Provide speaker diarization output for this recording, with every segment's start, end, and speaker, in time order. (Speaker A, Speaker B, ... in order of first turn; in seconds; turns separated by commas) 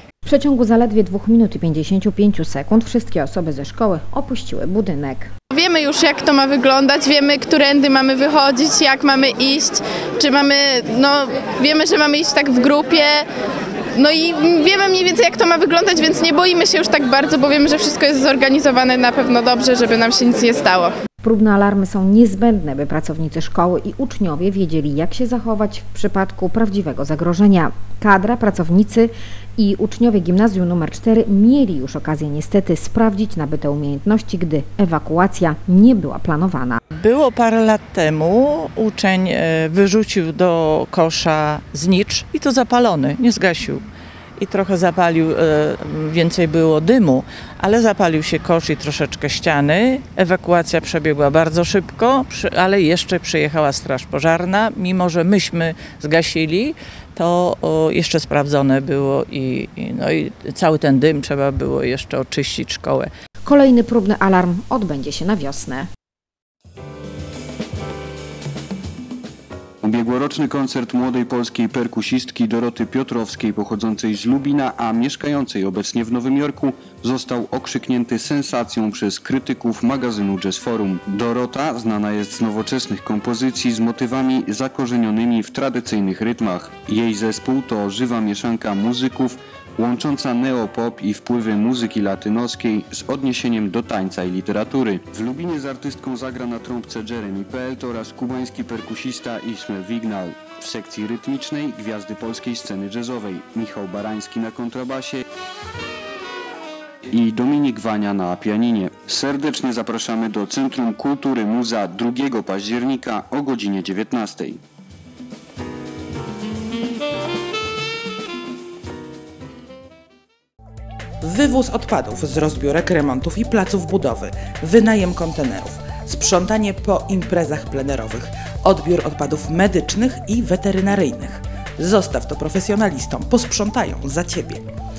Speaker A: 0.2-5.3, Speaker B: 5.5-13.2, Speaker B: 13.9-20.9, Speaker A: 21.2-36.8, Speaker C: 37.0-43.9, Speaker C: 44.4-63.1, Speaker A: 63.4-65.9, Speaker D: 69.8-105.2, Speaker D: 107.1-114.6, Speaker E: 121.2-134.7